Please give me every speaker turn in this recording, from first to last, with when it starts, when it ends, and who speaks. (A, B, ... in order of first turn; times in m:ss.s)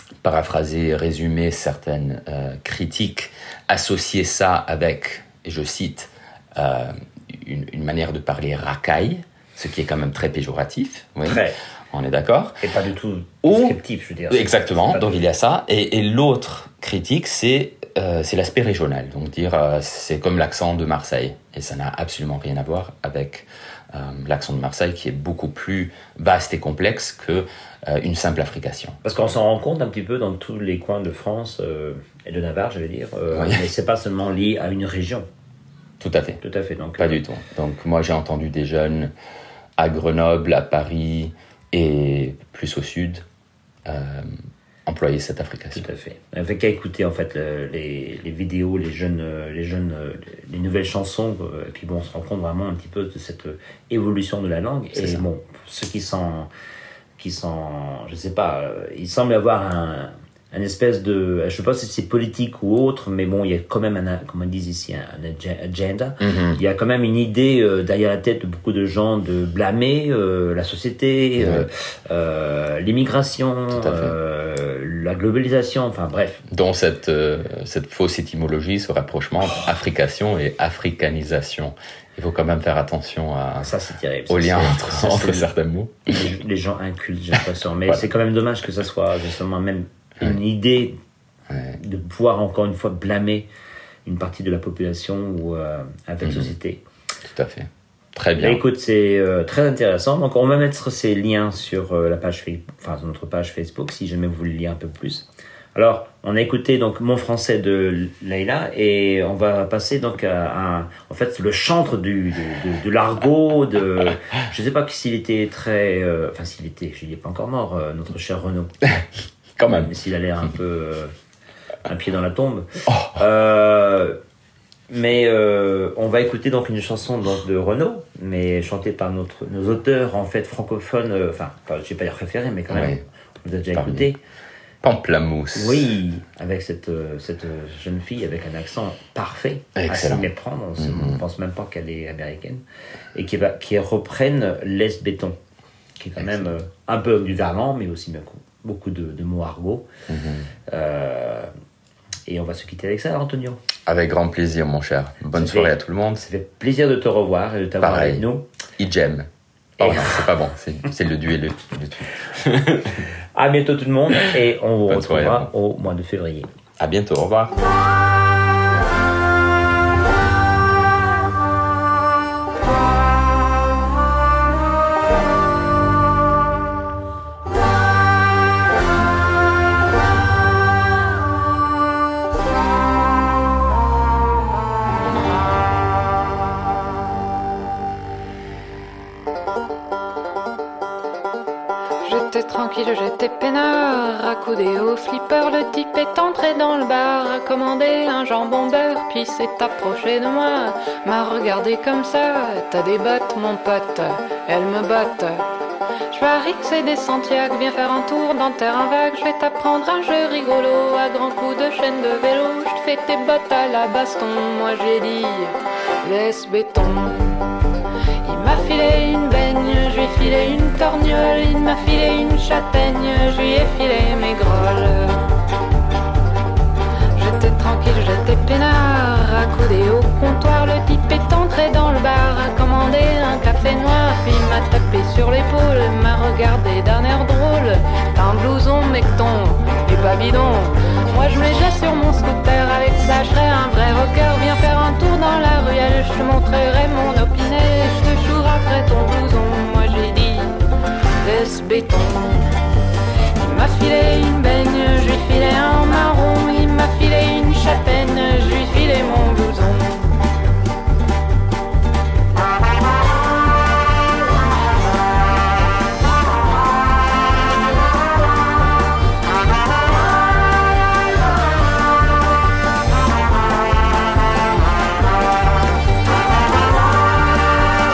0:00.2-0:12.6 A
0:11.2-0:11.6 B
0:12.6-0:15.2 B
0:13.4-0:13.8 A
0:14.3-0:29.0 A
0:29.0-0:35.2 B
0:33.3-0:33.7 A
0:36.0-0:36.4 A
0:36.4-0:37.2 B
0:37.0-0:39.1 A
0:39.8-0:43.2 A
0:43.8-0:44.3 A
0:44.8-0:45.9 A
0:45.7-0:56.5 B
0:54.9-0:55.2 A
0:57.2-1:16.4 B
1:06.2-1:06.6 A
1:11.4-1:11.7 A
1:13.7-1:14.1 A
1:16.5-1:23.7 A
1:23.6-1:25.5 B
1:24.3-1:26.2 A
1:26.1-1:31.0 B
1:31.5-1:31.8 A
1:31.8-1:33.5 B
1:34.0-1:36.8 B
1:36.2-1:36.5 A
1:37.3-1:38.6 A
1:38.4-1:59.0 B
1:59.6-1:59.9 A
1:59.6-2:01.1 B
2:01.8-2:04.2 B
2:02.9-2:03.2 A
2:04.9-2:14.2 B
2:12.7-2:13.0 A
2:13.7-2:14.1 A
2:14.8-2:15.9 A
2:15.5-2:22.6 B
2:19.8-2:21.2 A
2:23.1-2:25.4 B
2:26.0-2:29.8 B
2:26.2-2:26.5 A
2:30.1-2:30.5 A
2:30.7-2:31.5 B
2:32.3-2:33.6 B
2:33.8-2:36.2 A
2:35.3-2:38.4 B
2:37.8-2:38.2 A
2:38.8-2:43.0 A
2:39.8-2:40.2 B
2:43.3-2:46.5 B
2:44.9-2:45.5 A
2:46.8-2:47.6 A
3:12.0-3:25.4 C
3:26.1-3:37.3 C
3:38.2-3:45.2 C
3:47.2-4:10.6 C
4:11.2-4:12.5 C
4:13.4-4:20.1 C